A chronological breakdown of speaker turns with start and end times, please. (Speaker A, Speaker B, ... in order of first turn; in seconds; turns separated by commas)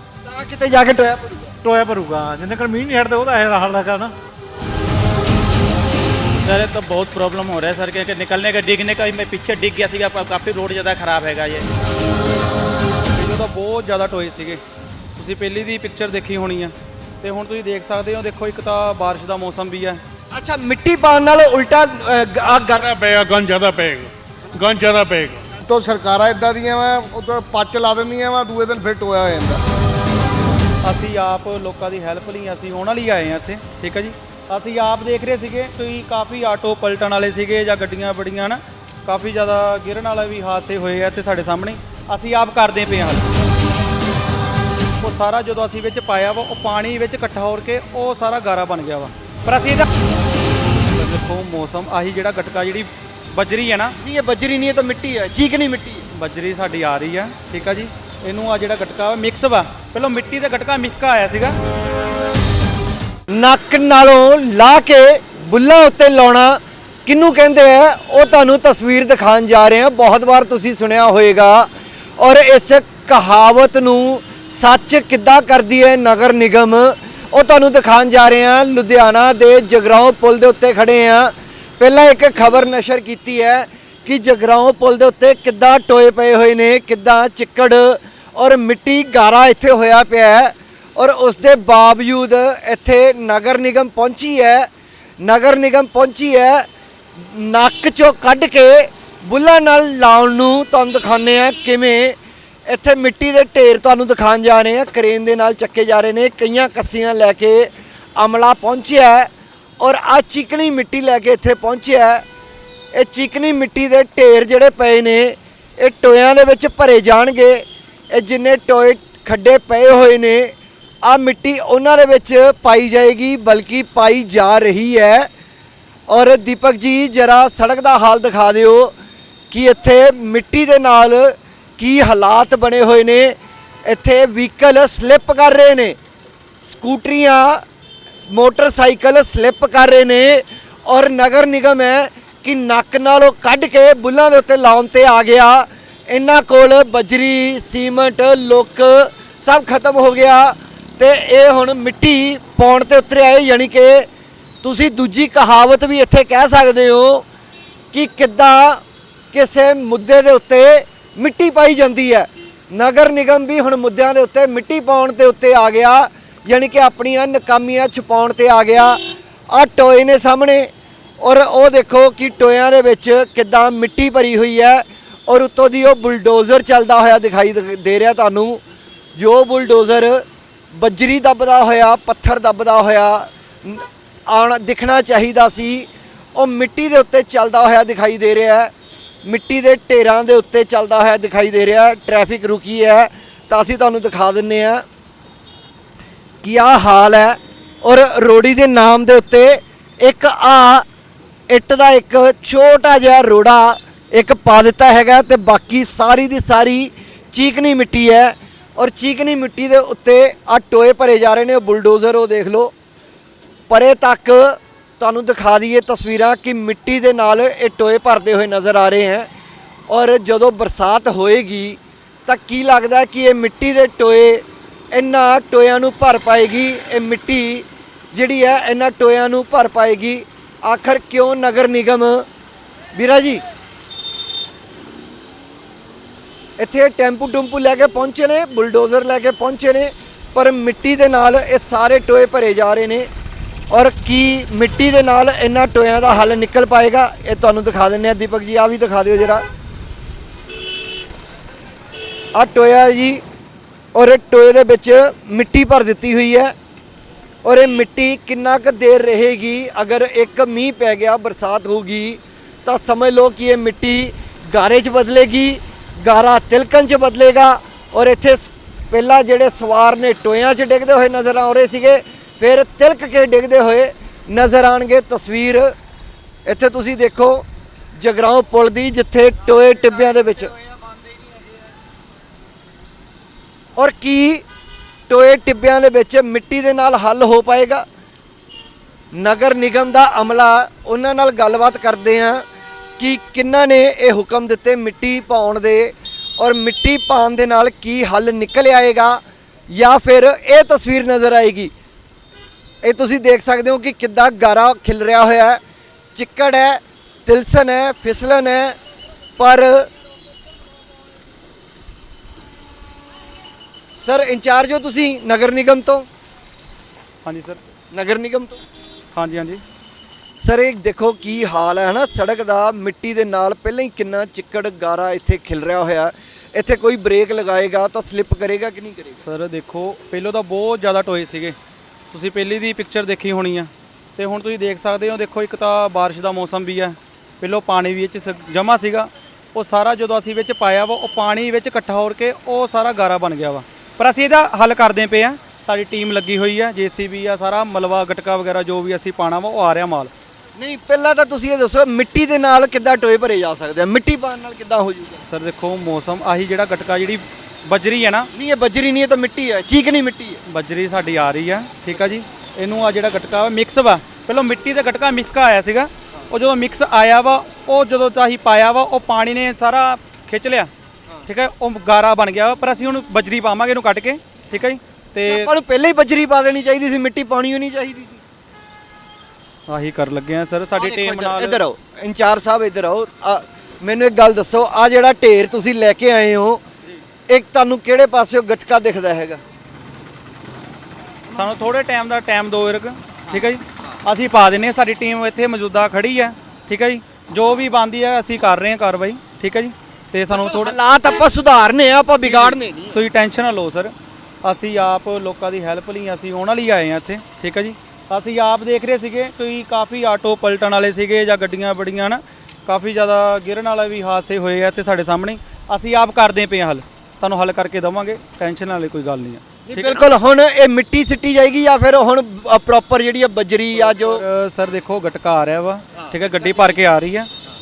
Speaker A: 0.2-1.5, Speaker B: 1.6-4.1, Speaker C: 3.2-3.8, Speaker D: 6.4-11.7, Speaker C: 13.1-14.6, Speaker C: 15.2-20.0, Speaker A: 20.3-22.9, Speaker E: 22.8-25.4, Speaker F: 25.6-29.6, Speaker C: 30.8-43.2, Speaker C: 45.0-49.9, Speaker C: 50.9-53.9, Speaker A: 54.0-56.0, Speaker C: 56.1-61.6, Speaker A: 63.3-94.7, Speaker A: 95.2-96.7, Speaker A: 97.2-102.2, Speaker A: 102.7-112.2, Speaker A: 112.9-125.3, Speaker A: 126.1-128.9, Speaker A: 129.5-135.9, Speaker A: 136.6-137.6, Speaker A: 138.3-154.1, Speaker A: 154.6-157.2, Speaker A: 157.9-169.0, Speaker A: 169.5-178.6, Speaker A: 179.2-188.7, Speaker A: 189.2-194.8, Speaker A: 196.4-200.8, Speaker A: 201.5-212.7, Speaker A: 213.7-219.3, Speaker A: 219.9-232.2, Speaker A: 232.9-233.4, Speaker A: 236.6-243.1, Speaker A: 243.7-249.4, Speaker A: 252.3-253.2, Speaker A: 253.9-256.5, Speaker A: 257.4-275.7, Speaker A: 276.4-277.4, Speaker A: 278.0-280.6, Speaker A: 283.8-284.4, Speaker A: 285.1-287.8, Speaker A: 289.1-292.4, Speaker A: 293.0-301.7, Speaker A: 302.8-305.6, Speaker A: 306.1-308.8, Speaker A: 309.4-309.9, Speaker A: 313.9-316.1, Speaker C: 317.2-317.6, Speaker A: 317.9-318.6, Speaker C: 319.1-319.6, Speaker A: 320.4-329.2, Speaker C: 329.2-331.6, Speaker C: 332.1-350.1, Speaker A: 350.6-355.2, Speaker C: 355.3-358.3, Speaker A: 358.3-360.4, Speaker C: 360.5-370.7, Speaker C: 371.3-375.5, Speaker A: 375.2-378.2, Speaker C: 379.7-381.6, Speaker A: 380.7-386.6, Speaker A: 387.3-389.4, Speaker A: 391.3-391.6, Speaker C: 391.3-400.8, Speaker A: 393.3-394.0, Speaker A: 400.3-403.0, Speaker C: 402.2-420.0, Speaker A: 419.6-424.2, Speaker C: 423.8-427.3, Speaker A: 425.9-426.8